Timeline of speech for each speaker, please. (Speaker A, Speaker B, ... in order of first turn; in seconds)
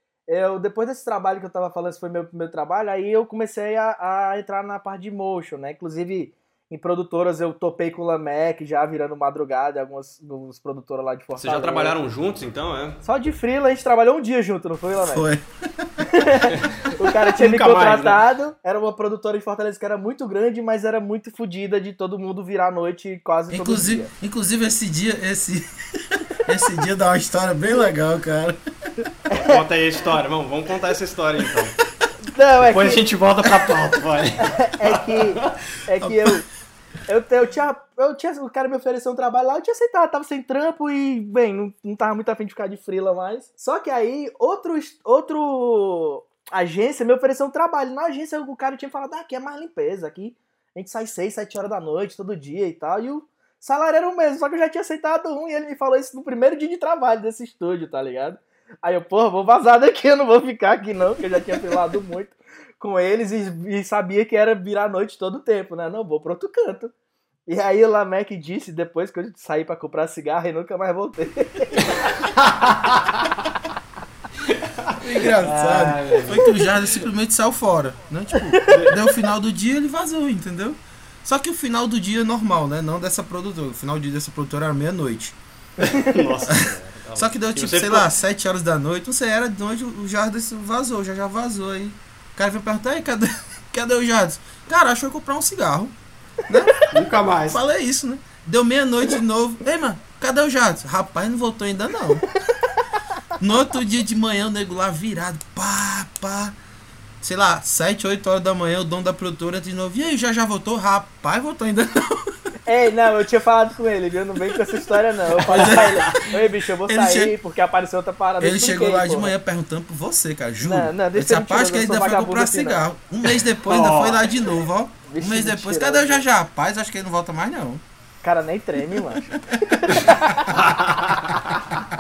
Speaker A: 0.3-12.0, 13.0-15.2, 16.1-24.1, 29.3-29.6, 32.3-33.0, 34.4-36.5, 37.1-66.9, 67.5-71.9, 78.6-78.9, 112.7-119.3, 120.6-122.8, 125.1-126.2, 128.2-130.6
Speaker B: 11.4-13.0, 16.5-18.2, 29.4-31.8, 32.7-35.5, 71.8-73.3, 74.4-76.8, 78.6-79.0, 85.8-88.1, 96.9-97.6, 115.5-116.3, 123.7-124.2, 129.9-131.8
Speaker C: 15.0-16.2, 23.5-29.0, 36.0-36.3, 75.0-85.4, 86.5-95.9, 96.5-96.9, 97.5-102.3, 103.4-106.5, 107.2-112.3, 114.6-116.2, 116.9-117.3, 118.4-127.8, 129.5-130.2